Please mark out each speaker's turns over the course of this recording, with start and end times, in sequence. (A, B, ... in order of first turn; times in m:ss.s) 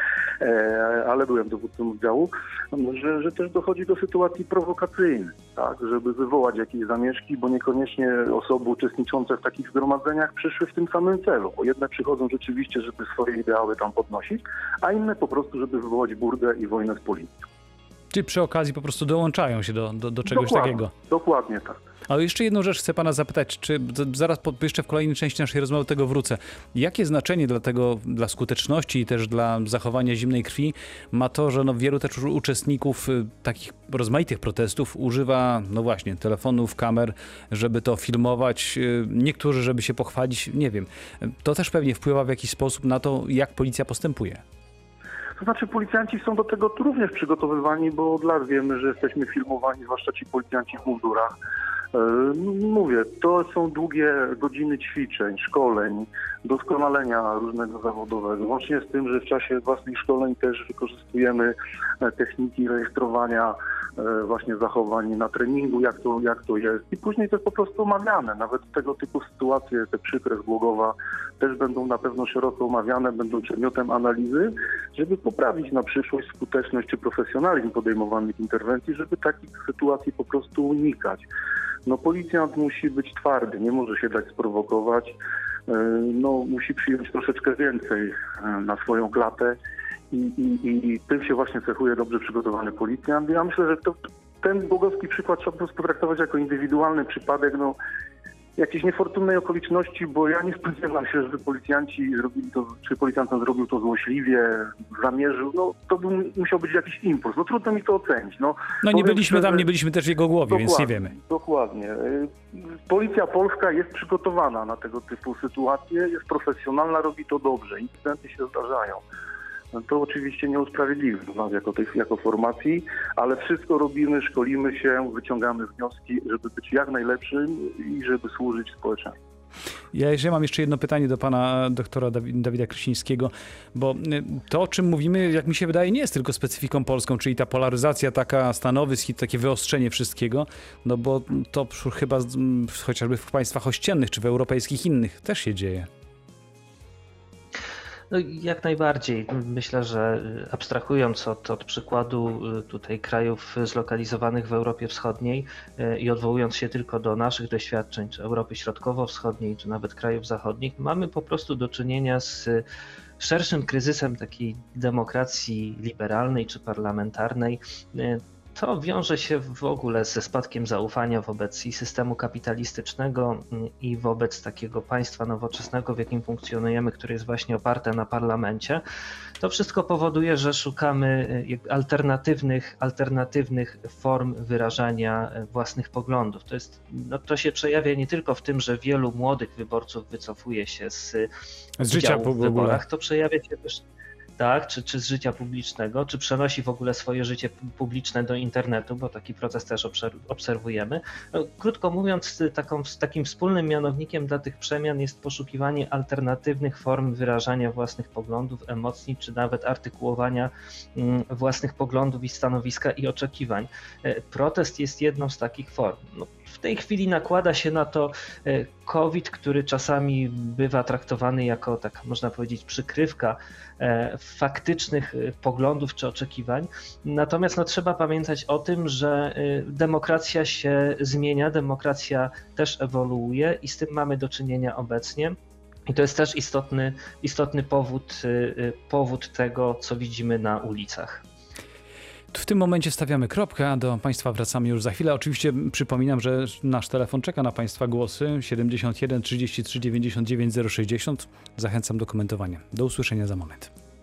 0:00.4-0:17.4 A
0:18.1-0:20.9 B
0:20.3-0:21.8 A
0:22.1-0:44.4 B
0:45.4-0:51.3 A
0:51.9-1:21.2 A
1:21.8-1:25.1 A
1:25.7-1:29.6 A
1:30.1-1:37.8 A
1:38.6-1:49.7 A
1:48.8-1:51.1 B
1:50.5-1:59.0 A
1:59.7-2:09.2 A
2:09.9-2:25.9 B
2:28.1-2:42.6 C
2:43.2-2:58.8 C
2:59.4-3:11.3 C
3:11.8-3:12.8 B
3:11.8-3:13.8 C
3:14.4-3:55.4 C
3:55.9-4:01.2 C
4:02.3-4:13.7 B